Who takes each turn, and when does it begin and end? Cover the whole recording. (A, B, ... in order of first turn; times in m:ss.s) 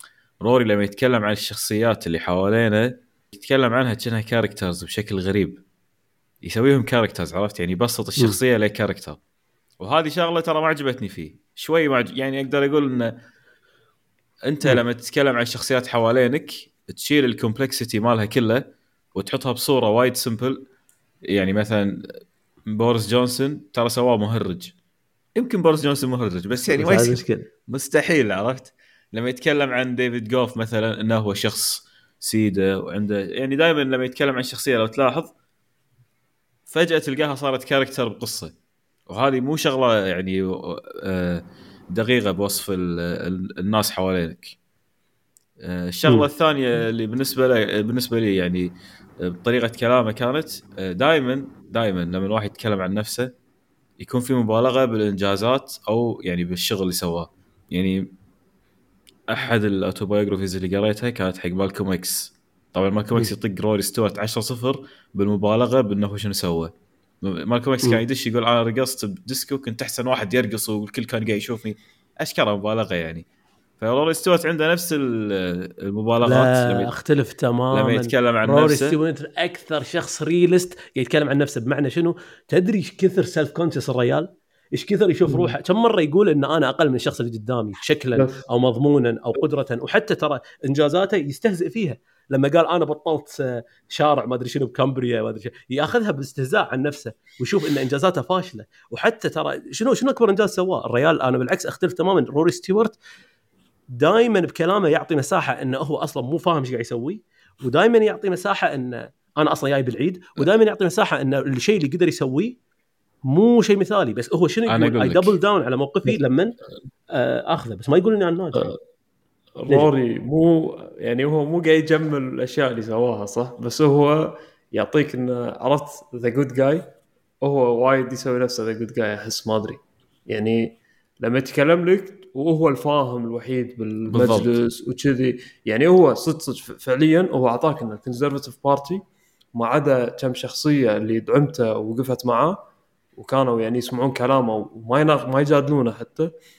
0:00.4-0:05.6 A
0:06.4-0:09.2 A
0:09.8-0:13.1 A
0:14.4-0:18.6 A
0:19.2-0:20.7 A
0:21.3-0:24.7 A
0:25.4-0:35.3 A
0:26.7-0:27.5 B
0:36.7-0:38.5 A
0:39.1-0:44.6 A
0:45.6-0:48.7 A
0:49.2-0:53.3 A
0:54.0-0:58.1 A
0:59.3-1:06.7 A
1:07.2-1:13.2 A
1:13.8-1:16.9 A
1:16.2-1:43.0 B
1:17.7-1:19.0 A
1:28.2-1:28.4 C
1:43.9-1:52.6 B
1:53.3-1:56.6 B
1:54.7-1:55.4 A
1:57.1-1:58.7 B
1:59.6-2:06.9 C
2:07.4-2:19.0 C
2:14.1-2:14.6 A
2:19.6-2:22.6 C
2:23.2-2:26.3 C